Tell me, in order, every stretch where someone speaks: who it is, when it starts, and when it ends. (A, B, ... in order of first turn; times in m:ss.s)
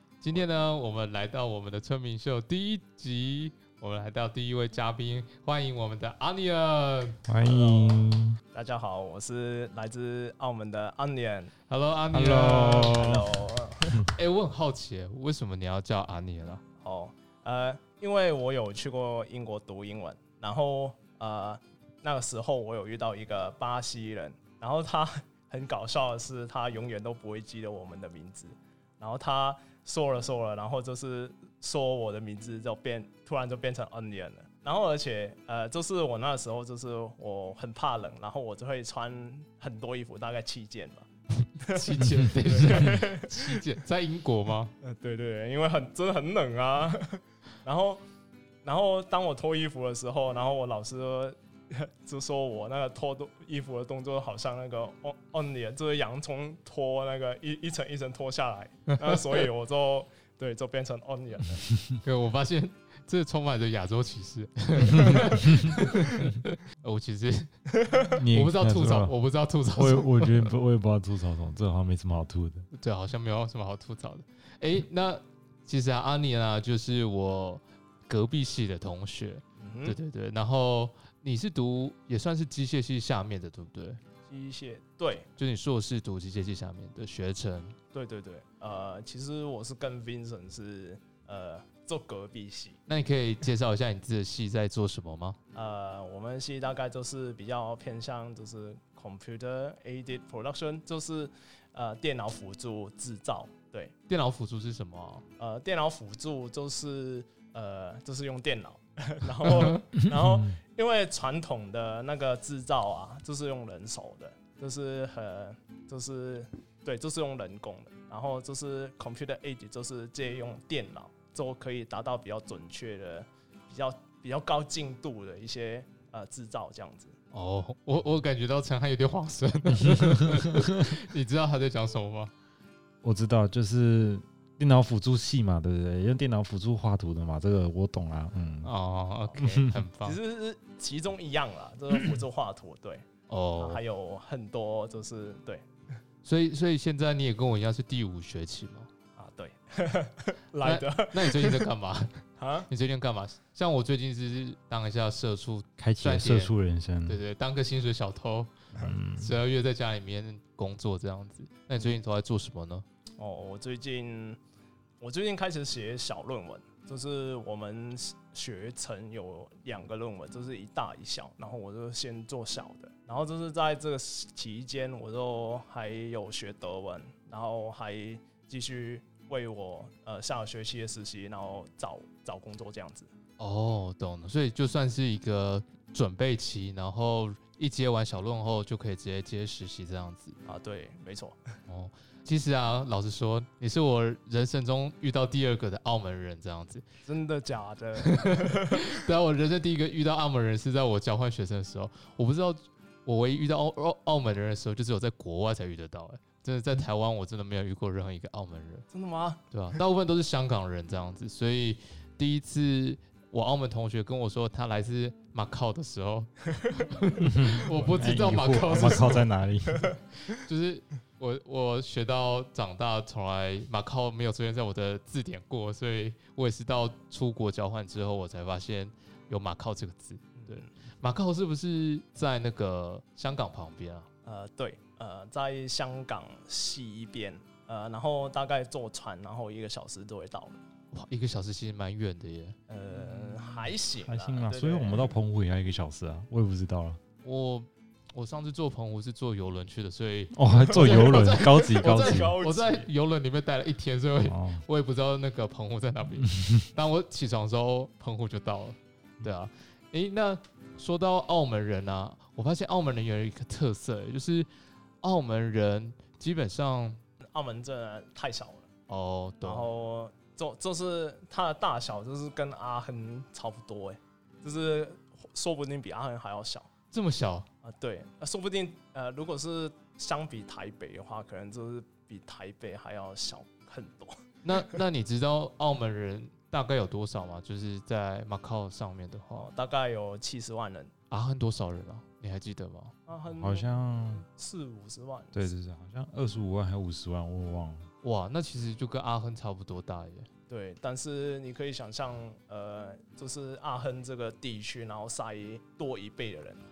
0:00.2-0:07.2 A
0:07.2-0:08.4 B
0:07.4-0:08.0 C
0:08.5-0:11.5 C
0:11.7-0:13.2 A
0:12.1-0:13.2 B
0:12.7-0:14.1 C
0:14.0-0:16.6 A
0:16.8-0:41.1 C
0:41.6-0:43.6 C
0:41.6-0:44.7 A
0:44.8-0:48.0 C
0:48.6-1:01.7 C
0:59.0-0:59.4 A
1:02.0-1:10.5 A
1:08.1-1:09.1 B
1:09.7-1:12.7 B
1:12.7-1:24.0 A
1:19.6-1:20.0 C
1:24.3-1:25.3 C
1:25.4-1:27.8 A
1:27.9-1:32.8 C
1:32.9-1:35.4 A
1:35.5-1:43.9 C
1:44.1-1:45.3 A
1:45.4-2:07.2 C
2:07.3-2:12.3 A
2:09.7-2:10.7 B
2:13.0-2:18.7 B
2:18.6-2:20.2 A
2:19.4-2:19.8 B
2:20.0-2:23.0 C
2:23.3-2:23.8 A
2:23.6-2:25.7 C
2:26.2-2:28.9 A
2:29.2-2:31.7 C
2:30.6-2:36.5 A
2:32.4-2:32.7 C
2:35.8-2:37.2 B
2:37.1-2:42.8 A
2:38.8-2:39.4 B
2:43.2-2:44.4 C
2:45.0-3:03.1 C
3:03.4-3:10.4 A
3:10.5-3:11.4 C
3:11.7-3:16.9 A
3:17.0-3:18.9 C
3:18.0-3:28.9 A
3:28.9-3:29.4 C
3:29.5-3:39.3 A
3:37.2-3:39.9 B
3:40.2-3:54.1 A
3:50.4-3:50.7 C
3:54.2-4:00.6 C
4:00.9-4:02.6 A
4:02.7-4:05.1 C
4:04.0-4:07.0 B
4:07.2-4:24.5 A
4:10.3-4:12.4 B
4:10.5-4:12.9 C
4:14.2-4:14.6 B
4:16.2-4:16.6 B
4:25.0-4:27.0 A
4:27.3-4:28.7 C
4:28.9-4:29.7 A
4:29.4-4:36.7 C
4:36.9-4:37.5 A
4:37.6-4:44.8 C
4:44.4-4:49.5 A
4:49.4-4:50.9 C
4:51.1-4:53.0 A
4:53.1-4:55.5 C
4:53.4-4:54.2 B
4:55.3-4:57.9 B
4:58.0-5:00.3 A
5:00.5-5:06.6 C